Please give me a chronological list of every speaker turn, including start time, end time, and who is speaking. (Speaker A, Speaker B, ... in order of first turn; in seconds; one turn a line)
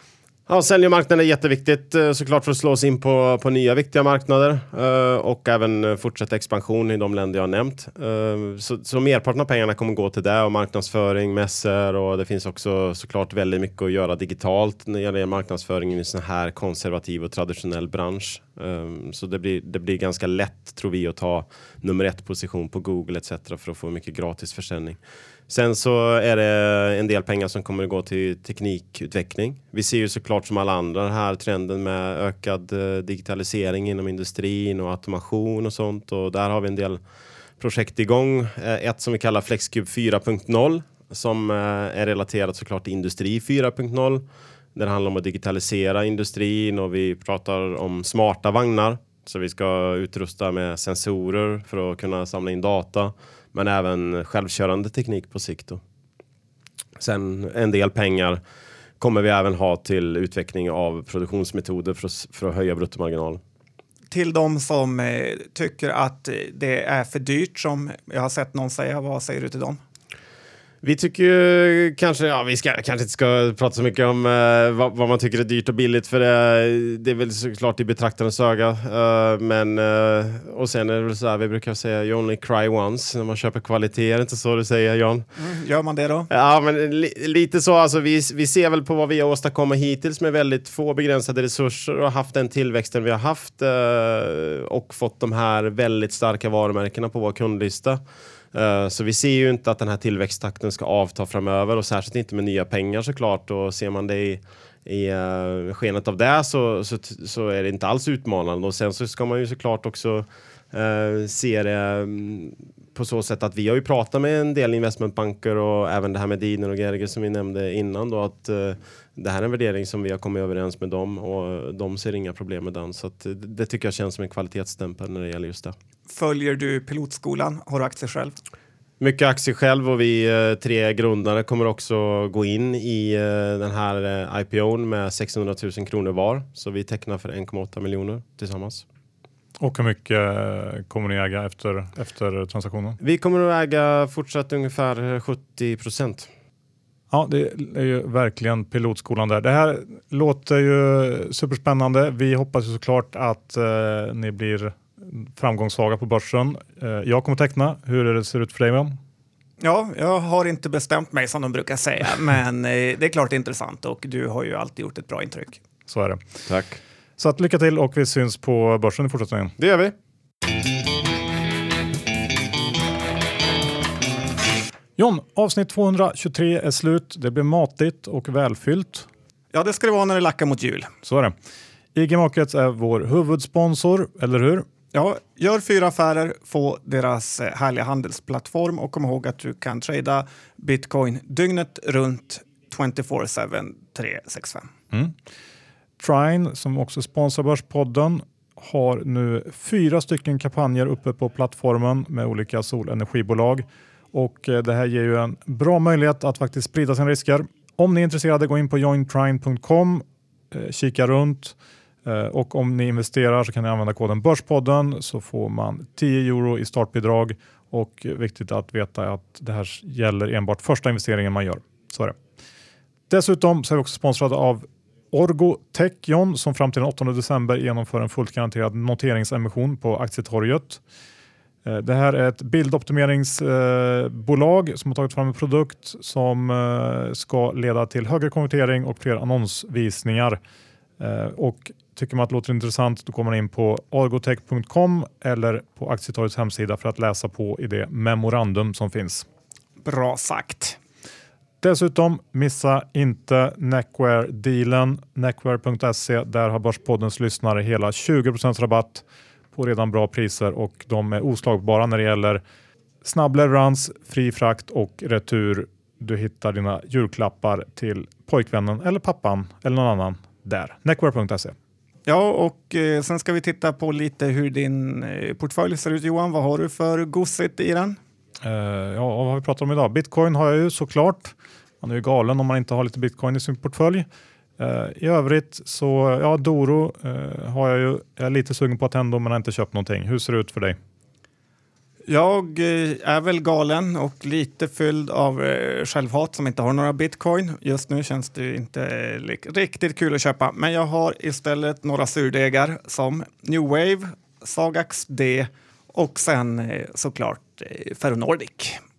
Speaker A: 0.5-37.0
Speaker A: 37.6-44.2
Speaker A: 44.7-55.8
Speaker A: 57.0-58.4
Speaker A: 59.0-63.4
Speaker B: 64.1-69.8
Speaker A: 70.8-85.2
Speaker B: 85.4-86.3
Speaker A: 86.3-98.0
Speaker A: 98.5-125.7
Speaker B: 126.1-128.3
Speaker A: 129.0-138.8
Speaker C: 139.6-143.0
Speaker A: 143.0-146.3
Speaker C: 147.1-158.9
Speaker B: 159.6-165.6
Speaker C: 165.9-166.2
Speaker A: 166.5-166.8
Speaker C: 167.2-169.6
Speaker A: 169.6-169.9
Speaker C: 175.0-179.1
Speaker B: 179.5-180.9
Speaker C: 181.0-181.3
Speaker C: 181.9-184.6
Speaker B: 184.9-194.7
Speaker C: 196.0-222.1
Speaker C: 223.1-230.8
Speaker C: 231.6-240.4
Speaker C: 241.0-249.2
Speaker B: 249.8-250.8
Speaker C: 251.6-262.4
Speaker C: 263.0-271.5
Speaker B: 272.1-278.0
Speaker C: 278.4-284.0
Speaker C: 284.6-290.8
Speaker B: 292.1-308.8